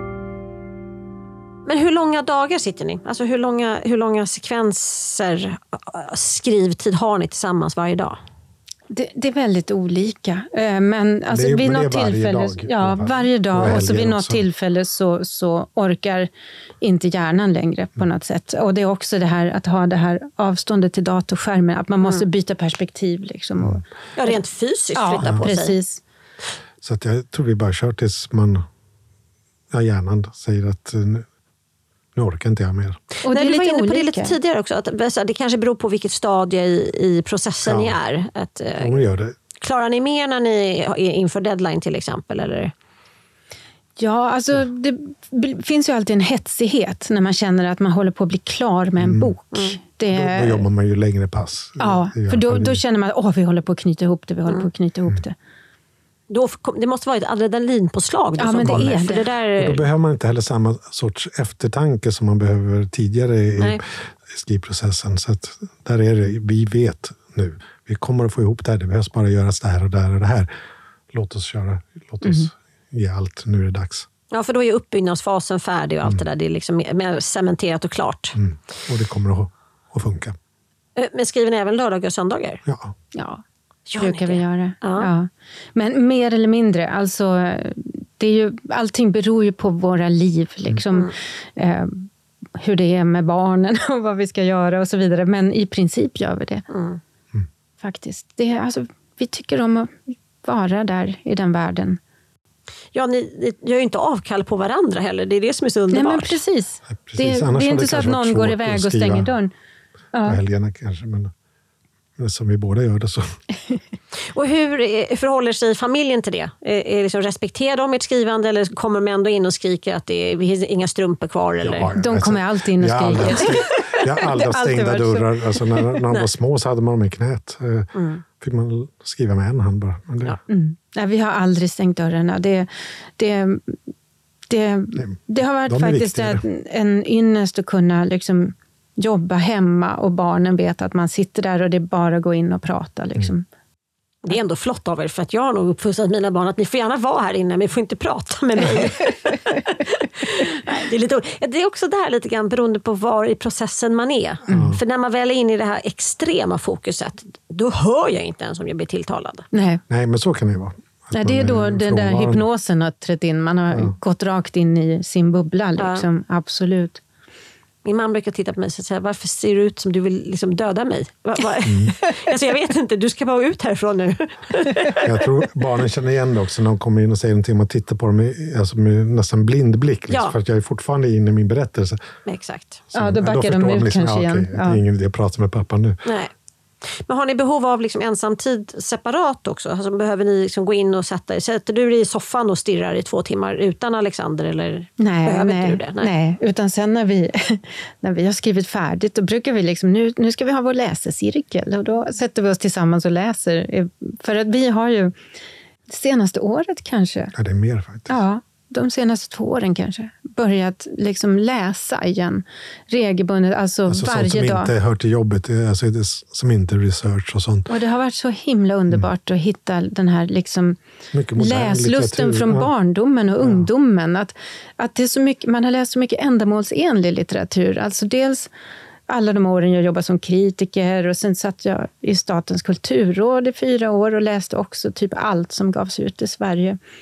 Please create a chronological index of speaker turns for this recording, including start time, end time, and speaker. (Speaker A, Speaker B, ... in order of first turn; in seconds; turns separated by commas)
Speaker A: 1.6-8.2, Speaker B: 8.9-16.3, Speaker C: 11.3-14.4, Speaker B: 16.8-24.4, Speaker A: 24.1-25.8, Speaker B: 24.9-26.0, Speaker C: 26.8-28.6, Speaker C: 29.7-31.2, Speaker C: 32.1-33.0, Speaker B: 33.2-34.3, Speaker A: 33.3-39.0, Speaker C: 37.6-38.0, Speaker C: 38.8-39.4, Speaker A: 39.6-42.7, Speaker B: 44.0-50.6, Speaker C: 49.0-49.3, Speaker A: 49.5-49.8, Speaker C: 50.1-52.8, Speaker B: 51.8-55.3, Speaker A: 56.3-59.8, Speaker B: 58.4-59.3, Speaker C: 58.6-58.9, Speaker C: 59.6-70.5, Speaker C: 71.1-74.1, Speaker B: 72.2-72.5, Speaker A: 74.3-78.4, Speaker C: 78.3-80.3, Speaker A: 81.0-82.6, Speaker C: 82.6-82.9, Speaker B: 83.1-83.4, Speaker A: 83.9-85.1, Speaker B: 84.0-96.7, Speaker A: 96.7-97.0, Speaker B: 97.8-102.0, Speaker A: 102.9-106.4, Speaker B: 105.9-109.5, Speaker C: 106.9-109.3, Speaker B: 110.1-110.4, Speaker C: 110.2-111.3, Speaker C: 112.2-113.3, Speaker A: 114.3-121.9, Speaker C: 121.6-130.4, Speaker B: 121.9-125.8, Speaker A: 123.2-124.0, Speaker A: 127.9-128.2, Speaker B: 130.5-133.8, Speaker B: 134.5-143.4, Speaker C: 134.9-136.4, Speaker A: 144.2-159.4, Speaker C: 154.5-154.8, Speaker B: 159.5-159.8, Speaker C: 159.9-162.4, Speaker B: 161.1-167.0, Speaker A: 165.8-166.0, Speaker A: 167.8-175.1, Speaker C: 171.6-171.9, Speaker C: 175.0-182.0, Speaker A: 180.1-180.3, Speaker A: 182.2-182.8, Speaker C: 182.9-186.0, Speaker B: 182.9-184.8, Speaker A: 186.0-186.3, Speaker A: 187.1-196.1, Speaker B: 195.0-205.2, Speaker B: 205.9-207.3, Speaker C: 207.3-208.2, Speaker B: 208.1-214.7, Speaker C: 213.9-217.7, Speaker B: 217.7-220.8, Speaker C: 221.1-222.7, Speaker B: 221.3-228.5, Speaker C: 223.4-223.7, Speaker B: 229.1-236.8